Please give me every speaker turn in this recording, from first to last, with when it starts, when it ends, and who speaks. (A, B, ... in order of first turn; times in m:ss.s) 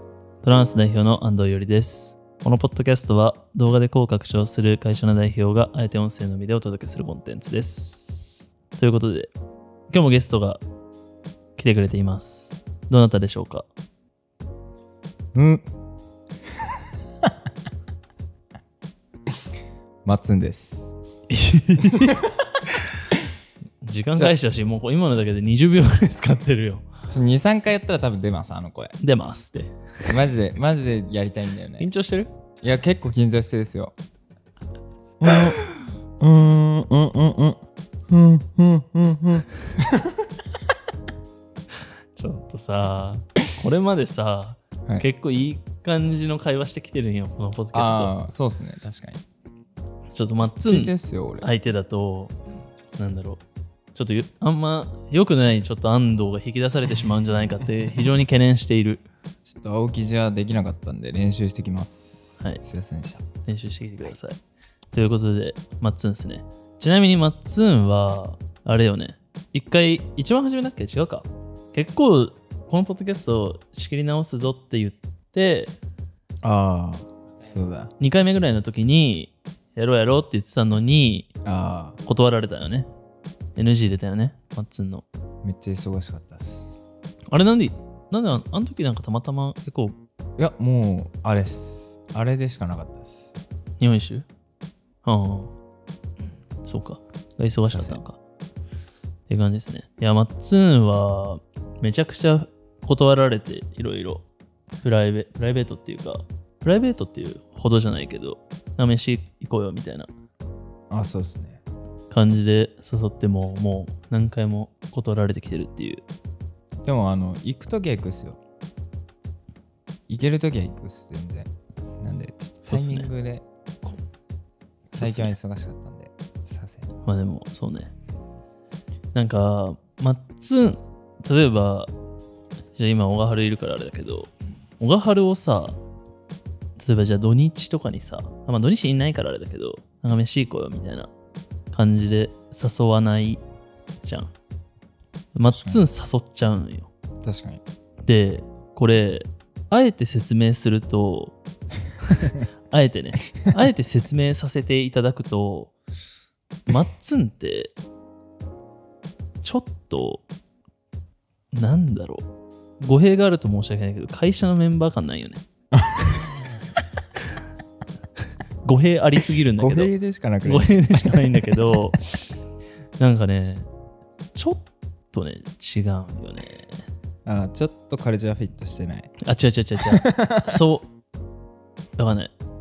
0:00.4-0:09.3 A
0:09.9-0:10.6 A
0:11.6-0:13.6 A
0:15.3-0:15.6 B
0:20.0-0:20.9 B
0:21.3-0:23.0 A
0:21.8-0:22.3 B
0:23.8-0:26.8 A
0:27.1-0:28.9 B
0:29.0-0:29.7 A
0:30.1-0:31.9 B
0:31.8-0:32.3 A
0:32.6-0:33.9 B
0:35.2-0:35.6 B
0:36.2-0:40.3 B
0:42.1-0:48.1 A
0:47.7-0:49.2 B
0:50.1-0:52.3 A
0:50.6-0:51.5 B
0:53.0-0:53.4 A
0:53.9-0:59.0 A
0:59.4-1:03.2 B
1:03.4-1:04.4 A
1:04.9-1:15.7 A
1:16.4-1:17.9 B
1:18.0-1:21.3 A
1:21.4-1:22.0 B
1:22.0-1:22.9 A
1:23.6-1:25.0 A
1:25.4-1:26.7 B
1:27.3-1:29.9 A
1:30.4-1:33.3 B
1:33.8-1:34.2 A
1:35.0-1:35.5 A
1:36.6-1:38.2 A
1:37.7-1:38.0 B
1:39.3-1:44.2 A
1:44.8-1:50.1 A
1:50.9-1:51.6 B
1:52.1-1:56.0 A
1:56.8-1:58.4 B
2:00.1-2:01.5 B
2:02.0-2:03.4 B
2:02.7-2:03.1 A
2:04.9-2:06.9 B
2:05.0-2:05.3 A
2:07.0-2:07.9 A
2:09.1-2:11.9 A
2:12.7-2:15.8 A
2:16.8-2:21.1 A
2:21.7-2:23.4 A
2:24.0-2:24.3 A
2:25.3-2:26.9 A
2:25.5-2:25.8 B
2:27.2-2:27.6 B
2:28.0-2:31.4 A
2:32.0-2:35.7 A
2:36.7-2:37.7 A
2:39.4-2:40.2 A
2:41.5-2:42.2 A
2:42.8-2:45.4 A
2:45.7-2:46.5 B
2:46.0-2:46.2 A
2:48.6-2:49.9 A
2:49.6-2:51.3 B
2:50.4-2:52.2 A
2:53.0-2:53.7 A
2:54.3-2:56.7 A
2:57.2-2:59.1 B
2:59.2-3:00.9 A
2:59.9-3:00.6 B
3:02.0-3:02.3 A